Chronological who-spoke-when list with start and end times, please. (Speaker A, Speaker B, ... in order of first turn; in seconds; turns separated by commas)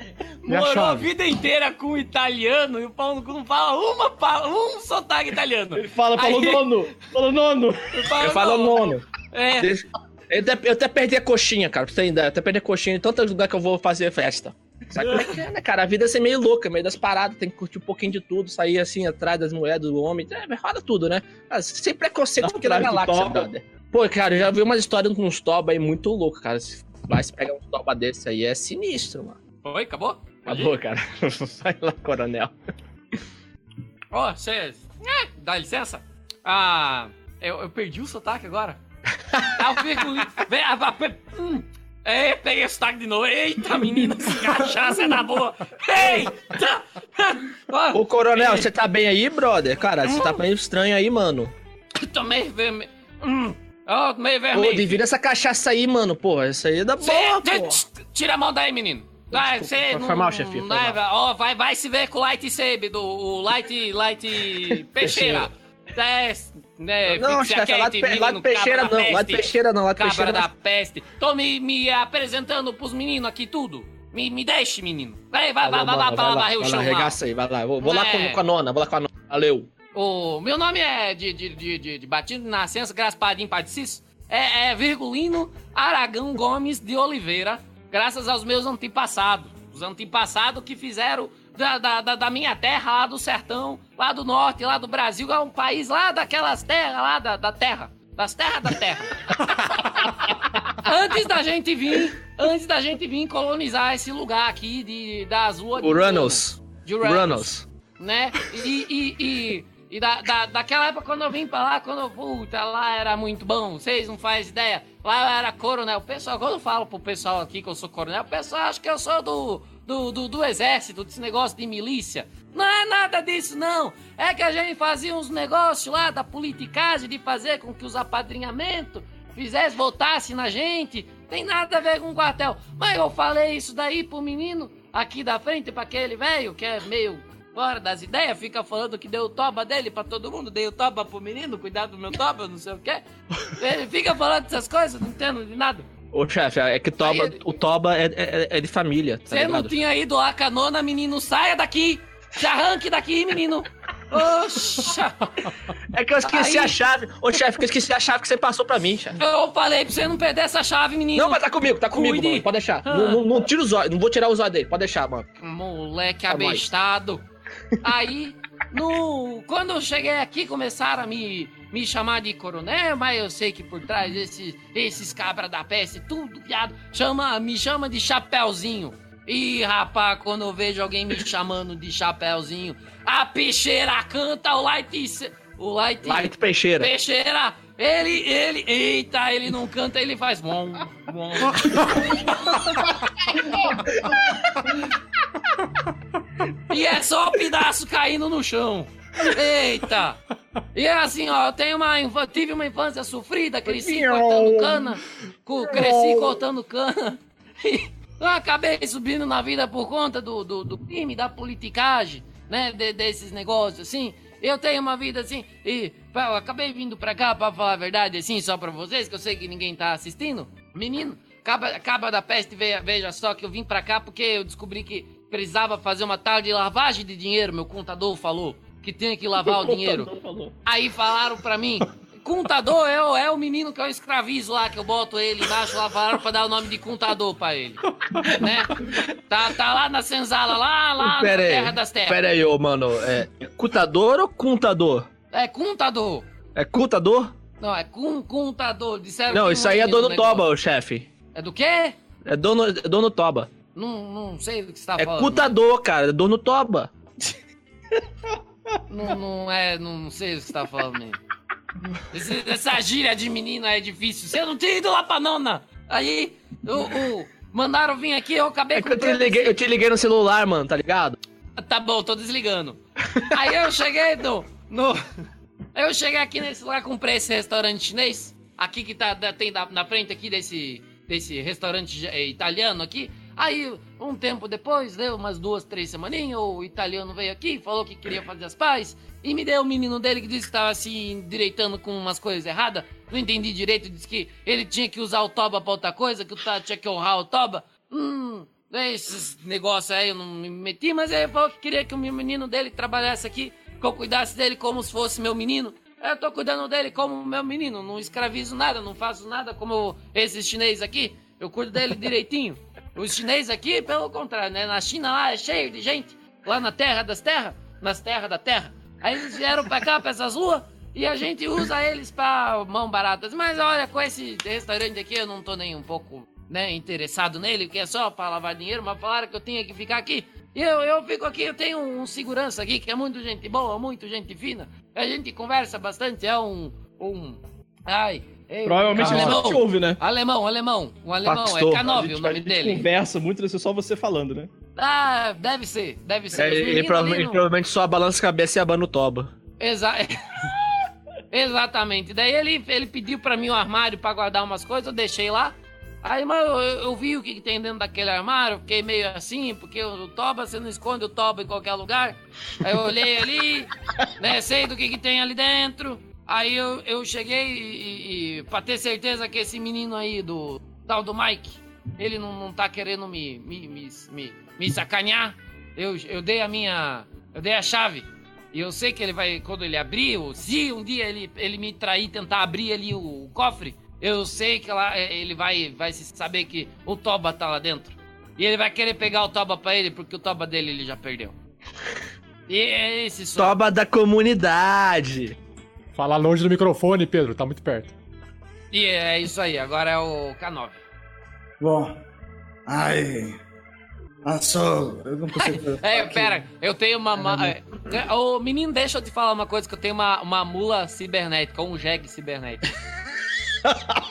Speaker A: 0.4-6.7, Speaker B: 0.5-1.1, Speaker C: 5.8-8.0, Speaker A: 7.9-9.7, Speaker D: 8.2-9.0, Speaker D: 9.6-29.4, Speaker C: 22.4-23.5, Speaker A: 29.6-30.8, Speaker D: 30.5-32.5, Speaker A: 34.1-38.8, Speaker A: 39.5-48.7, Speaker D: 47.9-51.5, Speaker A: 50.0-50.4, Speaker A: 52.0-55.0, Speaker D: 54.5-57.8, Speaker A: 57.0-77.2, Speaker D: 59.3-61.0, Speaker D: 64.7-65.5, Speaker D: 67.1-70.5, Speaker D: 75.6-79.7, Speaker A: 77.8-78.4, Speaker A: 79.9-145.8, Speaker D: 105.8-107.6, Speaker D: 146.1-149.8, Speaker A: 147.0-147.4, Speaker A: 149.3-155.5, Speaker D: 155.9-159.2, Speaker A: 156.2-156.8, Speaker A: 159.2-163.2, Speaker D: 161.2-165.3, Speaker A: 165.4-167.2, Speaker D: 166.3-166.7, Speaker A: 167.8-192.8, Speaker D: 186.1-186.9, Speaker A: 196.7-200.2, Speaker A: 200.8-230.1, Speaker D: 203.7-204.8, Speaker D: 205.7-206.3, Speaker D: 229.4-230.5, Speaker A: 230.7-242.2, Speaker D: 238.2-239.1, Speaker D: 241.0-245.1, Speaker A: 245.3-246.2, Speaker D: 246.6-247.3, Speaker A: 247.6-250.5, Speaker D: 249.3-251.1, Speaker A: 251.3-251.9, Speaker D: 252.2-253.5, Speaker A: 253.8-255.5, Speaker D: 255.0-257.4, Speaker A: 258.9-261.2, Speaker A: 262.1-269.6, Speaker D: 268.8-271.2, Speaker A: 271.6-275.0, Speaker A: 275.8-342.9, Speaker C: 338.6-340.0, Speaker D: 339.0-339.5, Speaker D: 341.3-342.2, Speaker C: 342.0-344.5, Speaker A: 344.8-347.4, Speaker D: 346.4-349.3, Speaker A: 349.6-350.6, Speaker A: 351.3-391.4, Speaker A: 392.5-393.6, Speaker D: 393.4-395.4, Speaker B: 395.9-397.9, Speaker A: 398.7-400.8, Speaker E: 401.6-402.0, Speaker E: 402.7-403.4, Speaker E: 404.2-406.3, Speaker A: 405.4-412.7, Speaker E: 407.2-407.6